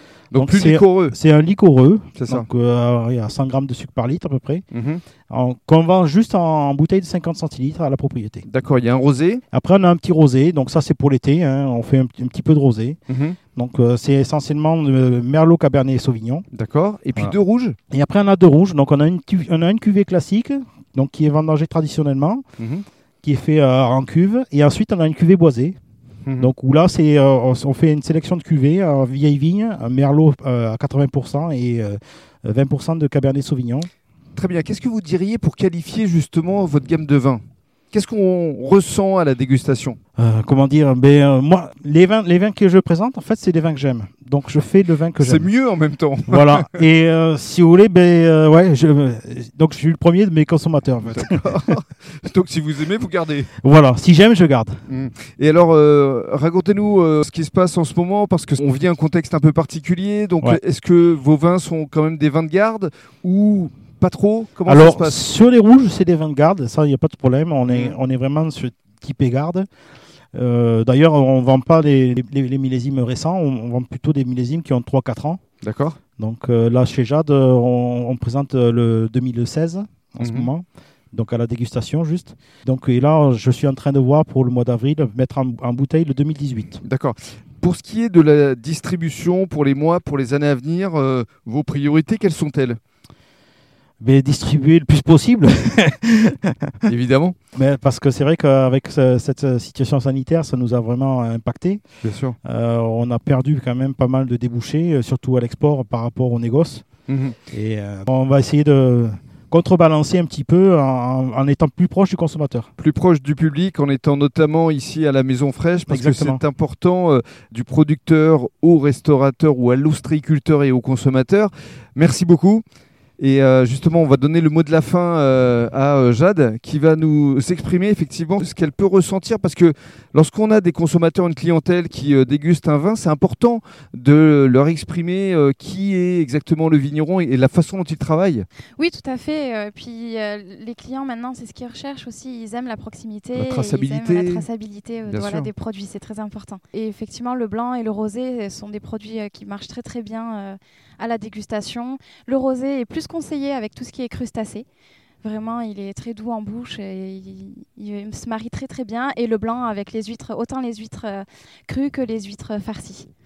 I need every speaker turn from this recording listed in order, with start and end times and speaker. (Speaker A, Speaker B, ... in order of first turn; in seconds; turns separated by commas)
Speaker A: 0.3-1.1, Speaker B: 0.3-4.6, Speaker A: 2.1-2.5, Speaker A: 4.7-5.0, Speaker B: 5.3-8.4, Speaker A: 8.4-9.4, Speaker B: 9.5-13.0, Speaker A: 13.1-13.4, Speaker B: 13.6-16.4, Speaker A: 16.5-17.8, Speaker B: 17.9-22.4, Speaker A: 22.6-22.9, Speaker B: 23.2-25.8, Speaker A: 26.2-26.5, Speaker B: 26.4-33.9, Speaker A: 34.4-40.0, Speaker B: 40.2-45.5, Speaker A: 45.2-46.8, Speaker B: 46.3-51.7, Speaker A: 51.0-53.5, Speaker B: 53.6-54.8, Speaker A: 54.9-65.2, Speaker B: 64.7-69.7, Speaker A: 67.7-67.9, Speaker B: 70.3-75.4, Speaker A: 75.6-76.0, Speaker B: 76.2-86.8, Speaker A: 80.2-80.5, Speaker A: 86.8-92.8, Speaker B: 94.0-96.9, Speaker A: 96.9-97.3, Speaker B: 97.5-101.8, Speaker A: 102.0-102.3, Speaker B: 102.4-106.8, Speaker A: 107.1-107.4, Speaker B: 107.5-112.7, Speaker A: 112.8-122.6, Speaker B: 115.9-116.4, Speaker A: 123.2-138.5, Speaker C: 138.8-154.7, Speaker A: 143.3-144.4, Speaker A: 145.1-145.5, Speaker C: 155.2-163.1